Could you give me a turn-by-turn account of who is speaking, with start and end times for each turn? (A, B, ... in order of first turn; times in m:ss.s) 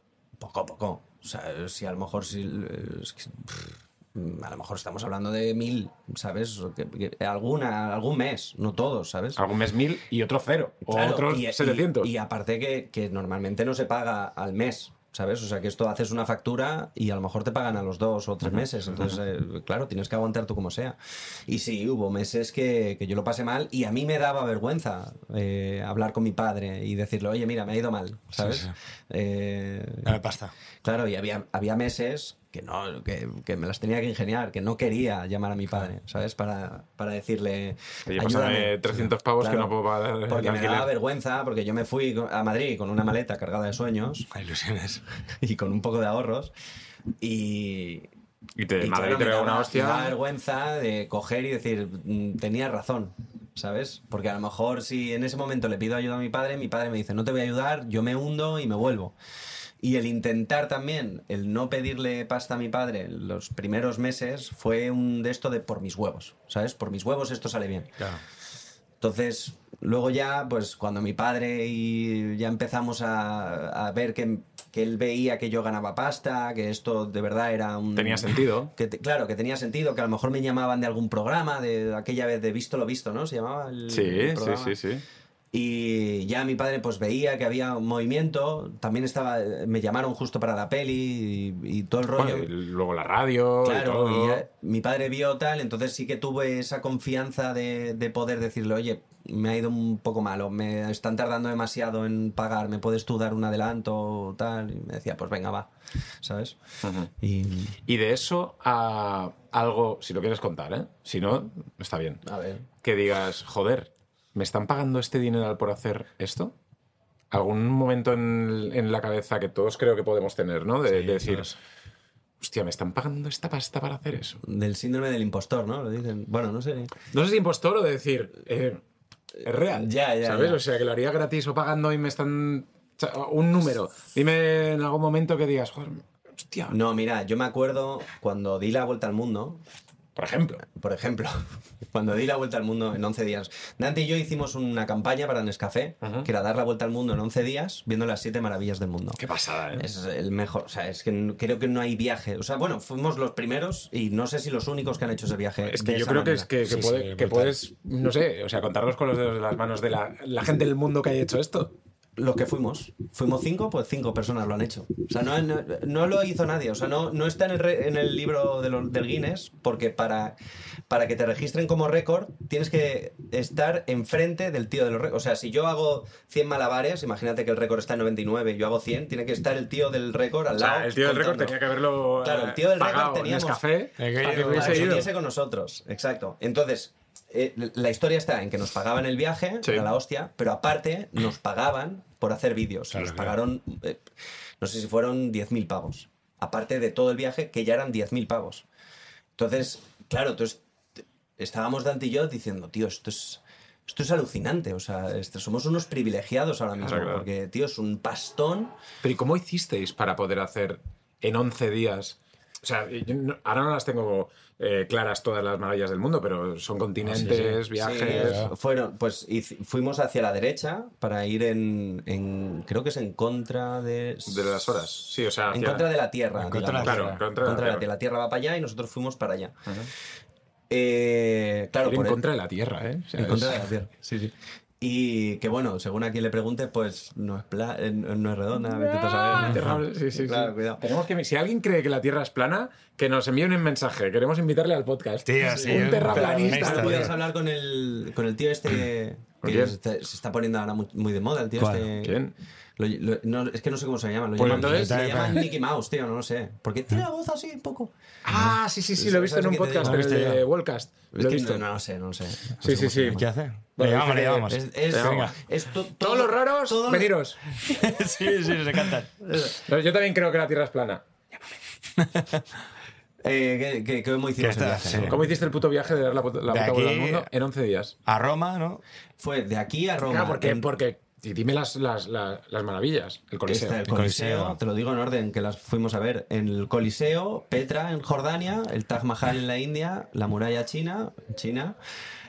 0:00.4-0:09.4 A
0:09.4-0:12.1 B
0:10.9-0:30.2 A
0:18.4-0:19.2 B
0:28.4-0:28.8 C
0:30.0-0:30.5 C
0:30.8-0:44.3 A
0:38.1-0:40.9 B
0:44.3-0:45.0 C
0:45.4-0:46.5 A
0:47.2-0:48.1 A
0:48.6-0:50.2 B
0:48.8-0:59.2 A
0:59.8-1:07.9 A
1:09.0-1:24.8 A
1:18.0-1:18.7 B
1:23.9-1:25.0 B
1:25.5-1:32.5 A
1:32.1-1:34.4 B
1:33.6-1:45.7 A
1:46.2-1:46.6 A
1:46.8-1:47.1 B
1:47.1-1:47.8 A
1:47.8-1:52.2 B
1:52.2-1:52.7 A
1:52.8-1:56.6 B
1:57.3-2:01.6 B
2:00.9-2:01.5 C
2:02.4-2:04.4 B
2:04.4-2:07.0 A
2:07.1-2:08.8 B
2:09.4-2:16.8 B
2:09.6-2:10.6 A
2:16.7-2:19.6 A
2:20.2-2:20.6 B
2:20.6-2:29.2 A
2:26.0-2:26.3 B
2:29.2-2:29.9 B
2:29.7-2:36.5 A
2:35.7-2:41.8 B
2:36.7-2:37.5 C
2:42.2-2:50.4 A
2:50.9-3:01.6 A
3:00.5-3:05.1 B
3:02.2-3:14.0 A
3:04.0-3:05.1 C
3:09.6-3:09.9 B
3:12.9-3:13.4 C
3:14.6-3:18.7 A
3:19.4-3:20.6 A
3:21.4-3:28.8 A
3:26.8-3:27.3 B
3:29.0-3:38.5 B
3:37.1-3:38.5 C
3:37.7-3:44.7 A
3:44.3-3:45.9 B
3:45.5-3:49.6 A
3:46.4-3:47.2 C
3:46.8-3:47.9 B
3:50.7-3:52.2 A
3:51.8-3:53.7 B
3:53.2-4:00.8 A
3:58.8-4:07.1 B
3:59.4-3:59.7 C
4:05.3-4:07.2 C
4:05.6-4:12.2 A
4:09.4-4:09.8 B
4:11.6-4:12.3 B
4:12.8-4:17.9 A
4:14.4-4:15.4 B
4:14.4-4:15.5 C
4:18.2-4:21.6 B
4:18.9-4:20.0 A
4:19.8-4:20.4 C
4:21.1-4:23.3 A
4:22.6-4:23.2 B
4:23.1-4:25.4 C
4:23.8-4:25.3 B
4:24.4-4:28.6 A
4:26.0-4:27.4 B
4:27.6-4:29.1 C
4:29.2-4:29.6 A
4:29.5-4:31.0 B
4:32.0-4:32.4 C
4:33.2-4:35.2 A
4:34.4-4:35.2 C
4:35.1-4:38.0 B
4:36.5-4:37.3 C
4:38.1-4:38.8 C
4:39.2-4:40.7 A
4:40.0-4:43.8 B
4:43.5-4:51.8 A
4:43.9-4:44.6 C